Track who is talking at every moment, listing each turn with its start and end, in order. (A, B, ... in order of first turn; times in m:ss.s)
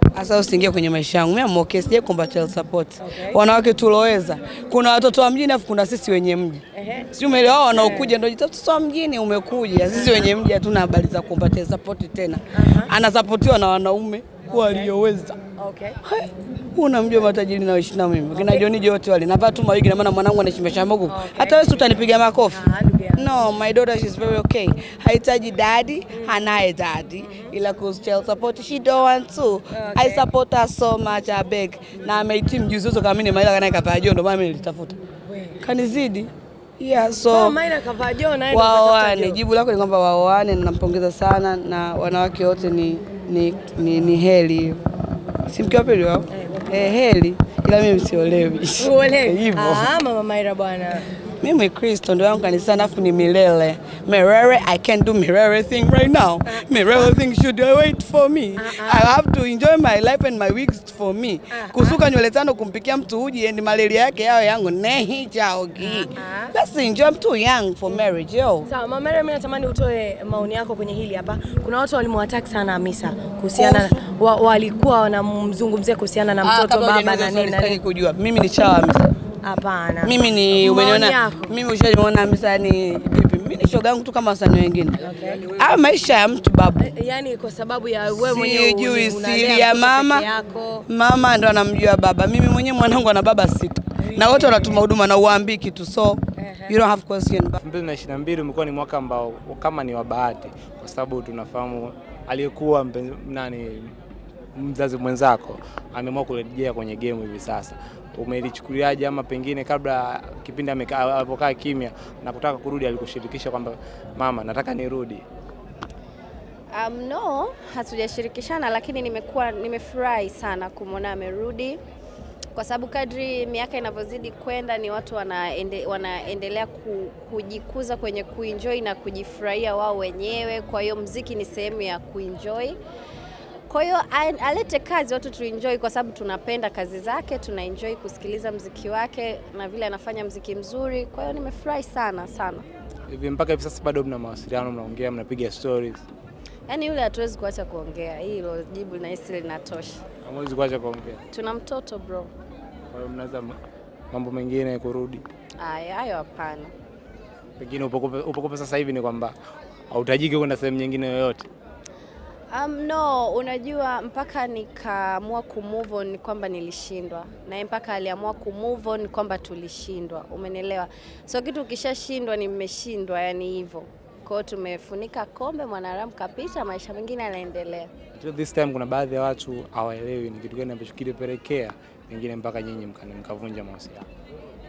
0:00.1-0:15.4 A
0:03.0-0:03.4 B
0:06.7-0:07.1 B
0:07.7-0:08.1 B
0:12.5-0:12.9 B
0:14.5-0:14.9 B
0:15.6-0:16.0 B
0:16.0-0:35.0 A
0:18.3-0:18.6 B
0:21.1-0:21.8 B
0:22.5-0:23.2 B
0:26.1-0:26.4 B
0:27.2-0:27.5 B
0:29.7-0:30.2 B
0:35.3-0:35.6 B
0:35.6-0:37.6 A
0:37.3-0:39.4 B
0:38.5-0:44.8 A
0:45.4-0:49.9 A
0:46.3-0:46.7 B
0:48.8-0:51.1 B
0:51.4-1:08.7 A
0:56.4-0:57.1 B
0:58.6-0:59.1 B
1:01.5-1:02.0 B
1:05.8-1:06.5 B
1:08.6-1:17.8 B
1:13.5-1:14.0 A
1:16.4-1:19.1 A
1:19.4-1:21.6 B
1:20.0-1:26.9 A
1:25.0-1:25.5 B
1:26.8-1:30.8 B
1:28.2-1:30.3 A
1:30.9-1:37.6 A
1:34.0-1:34.8 B
1:36.4-1:36.8 B
1:37.6-1:43.9 C
1:44.5-1:55.2 C
1:56.7-2:01.8 D
2:02.5-2:12.8 D
2:13.7-2:22.6 D
2:23.1-2:26.0 C
2:26.7-2:30.0 D
2:30.2-2:31.2 C
2:31.3-2:32.3 D
2:32.9-2:33.6 C
2:34.1-2:35.2 C
2:35.6-2:36.7 D
2:37.6-2:39.3 C
2:39.9-2:41.5 C
2:42.5-2:57.9 D
2:58.2-3:04.0 C